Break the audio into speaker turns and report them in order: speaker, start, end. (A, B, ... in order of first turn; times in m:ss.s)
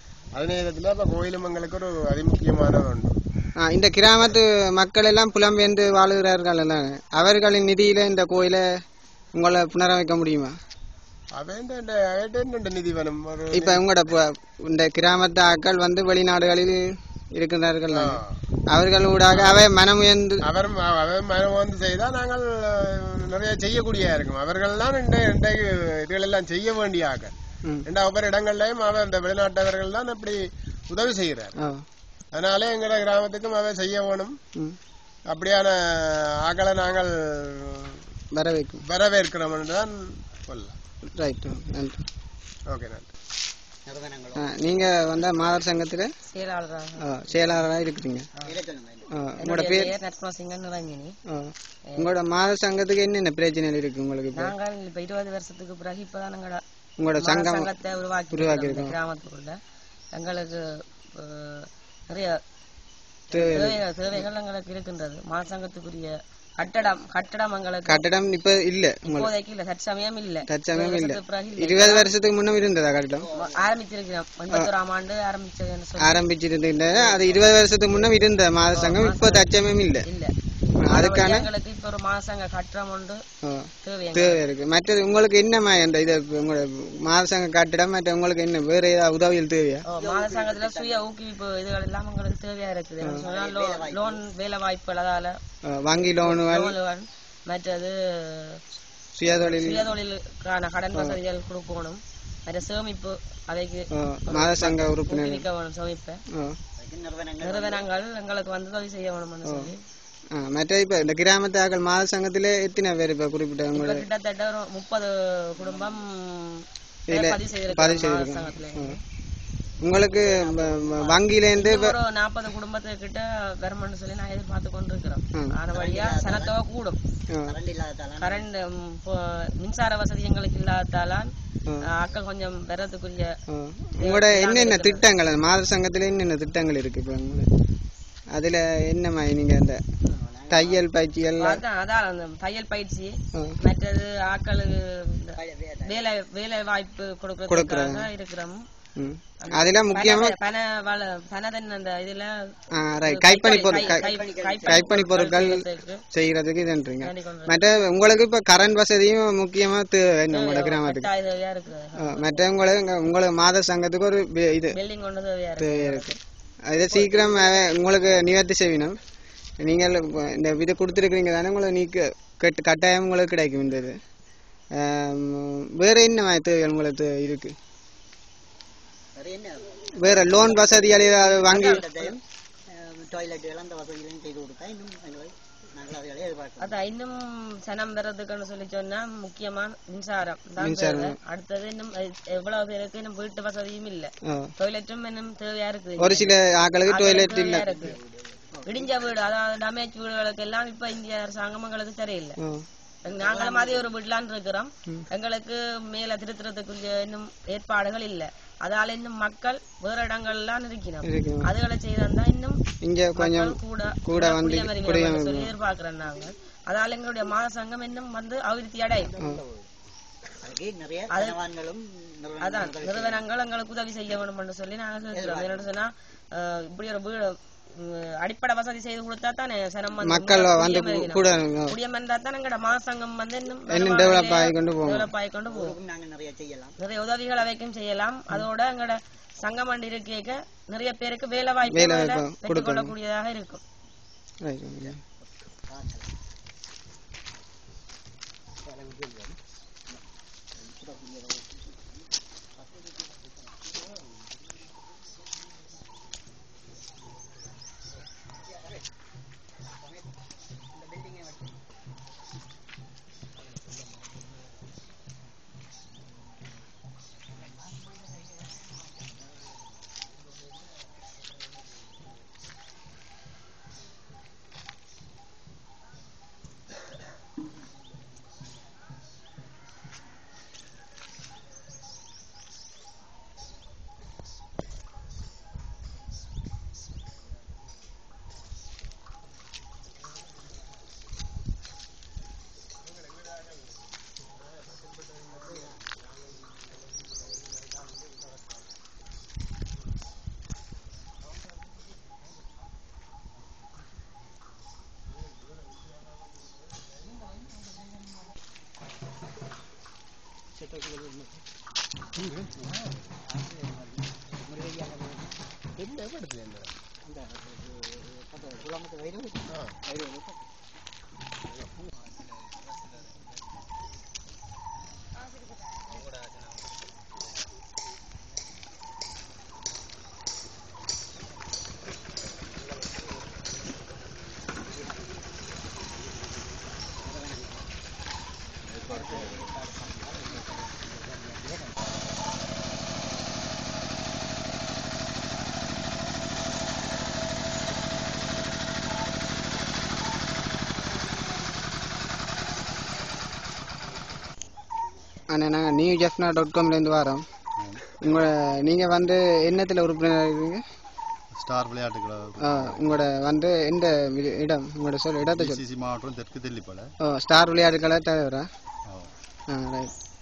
0:00.3-0:03.2 A
0:03.6-0:08.6 B
0:09.4-0:10.5 B
0:11.3-0:13.8 A
0:13.5-0:18.2 B
0:17.9-0:18.4 A
0:18.7-0:20.4 B
0:19.3-0:19.7 A
0:20.4-0:31.6 A
0:31.6-0:31.8 B
0:32.3-0:34.4 A
0:35.3-0:38.0 A
0:38.3-0:38.8 B
0:38.8-0:40.8 A
0:41.2-0:42.0 B
0:42.7-0:43.1 A
0:43.8-0:44.5 C
0:44.3-0:46.1 B
0:46.3-0:47.1 D
0:47.0-0:48.3 B
0:48.4-0:49.1 C
0:49.1-0:50.0 B
0:49.4-0:51.1 D
0:51.3-0:54.5 B
0:54.4-0:56.6 D
0:57.0-0:57.7 B
0:57.2-0:59.6 D
0:58.3-0:59.0 B
1:00.1-1:02.4 D
1:03.3-1:08.0 D
1:03.3-1:03.8 B
1:07.8-1:09.3 B
1:09.0-1:12.1 D
1:10.5-1:13.3 B
1:13.2-1:13.7 C
1:13.3-1:16.2 D
1:16.0-1:20.1 B
1:16.8-1:18.1 D
1:18.7-1:19.5 D
1:20.0-1:20.3 D
1:20.8-1:21.5 B
1:20.9-1:23.2 D
1:23.4-1:29.8 B
1:23.8-1:24.4 D
1:29.9-1:35.3 D
1:29.9-1:31.1 C
1:33.0-1:33.3 B
1:33.2-1:34.2 C
1:35.6-1:36.8 B
1:36.2-1:38.6 D
1:39.2-1:39.9 B
1:39.3-1:46.2 D
1:40.9-1:41.2 B
1:43.9-1:45.4 B
1:46.3-1:46.6 B
1:46.8-1:47.9 C
1:47.4-1:49.8 D
1:49.4-1:49.7 B
1:50.3-1:54.0 B
1:53.7-1:59.0 D
1:55.6-1:56.0 C
1:57.1-1:59.0 B
1:59.8-2:02.0 B
1:59.9-2:01.4 C
2:01.6-2:07.0 D
2:05.7-2:06.6 C
2:07.3-2:07.6 B
2:07.4-2:08.5 C
2:08.2-2:11.3 D
2:11.9-2:13.3 D
2:13.5-2:17.5 B
2:14.0-2:15.0 D
2:18.3-2:19.8 B
2:20.0-2:20.9 C
2:20.5-2:21.6 B
2:21.4-2:25.3 D
2:25.3-2:26.1 C
2:25.8-2:28.6 D
2:27.5-2:28.1 B
2:29.0-2:30.4 B
2:29.4-2:32.5 D
2:32.7-2:34.1 B
2:33.0-2:36.0 D
2:33.5-2:35.0 C
2:34.6-2:41.1 B
2:37.0-2:37.6 D
2:40.3-2:42.7 D
2:42.0-2:44.8 B
2:44.7-2:46.2 D
2:45.6-2:46.2 B
2:46.7-2:49.0 B
2:49.6-2:54.0 B
2:54.8-2:57.6 B
2:59.1-3:02.2 C
2:59.9-3:01.9 B
3:02.7-3:06.9 C
3:06.6-3:16.3 D
3:10.6-3:11.2 B
3:14.2-3:14.5 B
3:16.0-3:17.7 B
3:16.8-3:18.0 D
3:17.7-3:18.9 C
3:18.6-3:22.4 D
3:22.4-3:22.6 B
3:23.0-3:32.6 D
3:23.1-3:23.9 C
3:31.0-3:31.5 B
3:32.8-3:35.5 B
3:33.2-3:39.1 D
3:39.0-3:39.7 C
3:40.4-3:43.2 C
3:41.1-3:41.4 D
3:42.4-3:55.8 D
3:45.1-3:45.8 C
3:50.0-3:51.8 B
3:53.7-3:55.1 B
3:55.4-3:56.7 C
3:56.8-4:03.6 D
4:01.7-4:02.9 B
4:04.4-4:05.0 B
4:04.8-4:06.1 C
4:08.6-4:09.4 C
4:10.6-4:12.0 C
4:12.6-4:14.2 C
4:18.5-4:18.8 C
4:20.7-4:21.5 C
5:10.5-5:11.4 C
5:12.3-5:13.0 A
5:13.2-5:15.4 C
5:15.8-5:16.7 A
5:17.0-5:20.4 C
5:34.6-5:35.2 C
5:37.0-5:37.7 C
5:38.7-5:39.6 E
5:38.9-5:42.0 C
5:55.3-5:57.2 B
5:57.6-5:57.9 E
5:58.0-6:00.6 B
6:01.4-6:03.0 E
6:02.4-6:05.6 B
6:05.2-6:06.9 E
6:07.0-6:08.5 B
6:09.5-6:09.9 B